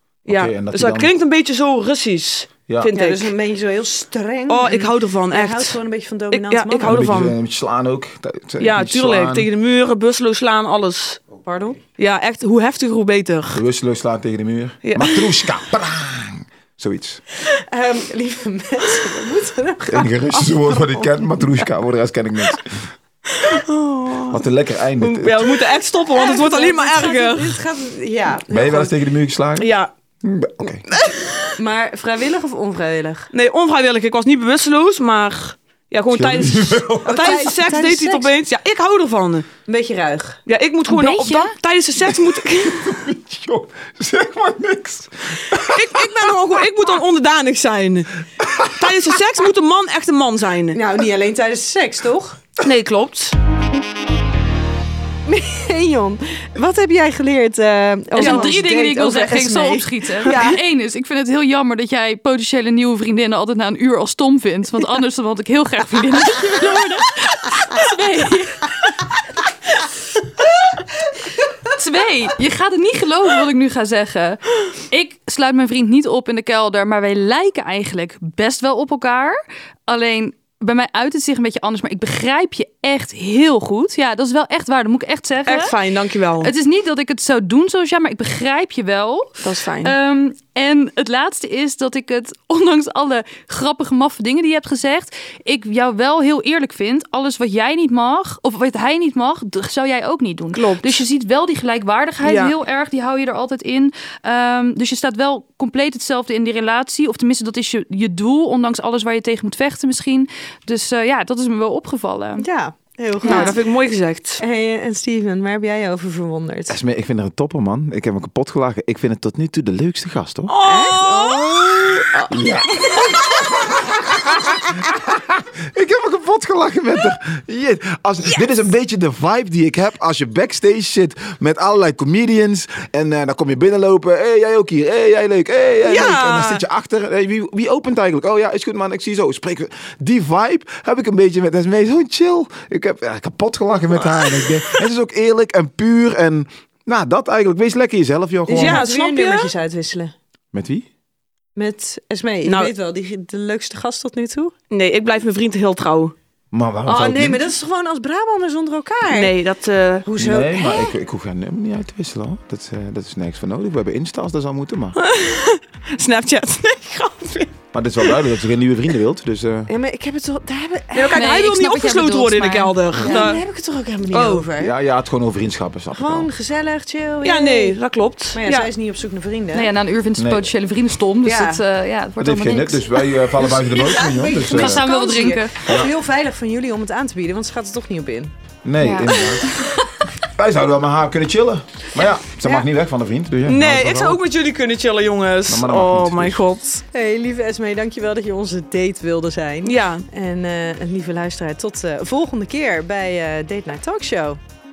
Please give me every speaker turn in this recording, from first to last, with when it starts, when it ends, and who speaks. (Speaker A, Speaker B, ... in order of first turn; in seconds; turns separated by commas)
Speaker A: 0.3-1.1, Speaker B: 0.3-3.3, Speaker A: 2.7-2.9, Speaker C: 2.9-7.2, Speaker B: 4.5-5.8, Speaker B: 6.3-7.4, Speaker A: 6.8-9.5, Speaker B: 8.6-11.2, Speaker C: 11.4-11.8, Speaker B: 12.0-13.6, Speaker A: 13.5-17.2, Speaker B: 14.8-15.3, Speaker C: 17.5-21.5, Speaker A: 19.9-22.9, Speaker B: 23.3-24.4, Speaker A: 24.3-25.6, Speaker B: 25.0-27.6, Speaker C: 26.1-29.0, Speaker A: 28.5-29.7, Speaker B: 29.6-29.9, Speaker A: 30.2-30.9, Speaker B: 30.9-31.6, Speaker C: 31.6-33.3, Speaker B: 33.3-39.5, Speaker A: 36.1-37.4, Speaker C: 37.0-38.3, Speaker C: 39.7-40.4, Speaker B: 40.5-43.0, Speaker D: 40.9-41.5, Speaker A: 42.0-46.3, Speaker B: 45.6-48.1, Speaker A: 48.4-49.2, Speaker B: 48.7-50.8, Speaker C: 50.7-52.4, Speaker B: 52.6-53.4, Speaker C: 55.3-60.6, Speaker D: 58.1-68.8, Speaker B: 58.2-58.5, Speaker D: 71.6-85.8, Speaker B: 85.5-86.5, Speaker D: 86.4-112.5, Speaker B: 89.4-90.0, Speaker B: 100.5-101.0, Speaker B: 102.2-102.5, Speaker C: 112.4-113.6, Speaker D: 113.2-113.6, Speaker B: 113.2-114.4, Speaker C: 114.4-116.8, Speaker A: 116.7-120.5, Speaker B: 120.5-121.8, Speaker C: 120.6-123.5, Speaker A: 121.7-148.8, Speaker B: 135.8-136.6, Speaker C: 148.5-150.1, Speaker B: 148.5-149.5, Speaker A: 150.5-150.9, Speaker C: 151.6-154.5, Speaker B: 152.4-152.7, Speaker B: 154.7-156.1, Speaker A: 156.5-157.6, Speaker C: 156.9-159.3, Speaker B: 159.1-160.1, Speaker C: 160.1-160.9, Speaker A: 160.2-165.0, Speaker B: 165.0-168.2, Speaker A: 167.7-169.7, Speaker C: 169.7-171.2, Speaker B: 170.9-173.4, Speaker D: 171.1-172.8, Speaker C: 173.0-174.7, Speaker B: 174.1-174.5, Speaker A: 174.6-176.3, Speaker C: 175.9-177.8, Speaker B: 177.2-178.7, Speaker C: 178.3-179.7, Speaker D: 179.5-183.1, Speaker A: 180.2-180.5, Speaker C: 181.2-181.6, Speaker A: 182.2-184.9, Speaker C: 183.4-188.3, Speaker D: 184.5-185.8, Speaker A: 185.7-185.9, Speaker A: 188.7-189.6, Speaker D: 188.8-190.0, Speaker A: 190.3-194.2, Speaker B: 193.5-196.8, Speaker A: 195.5-196.4, Speaker C: 196.9-204.4, Speaker B: 199.6-200.1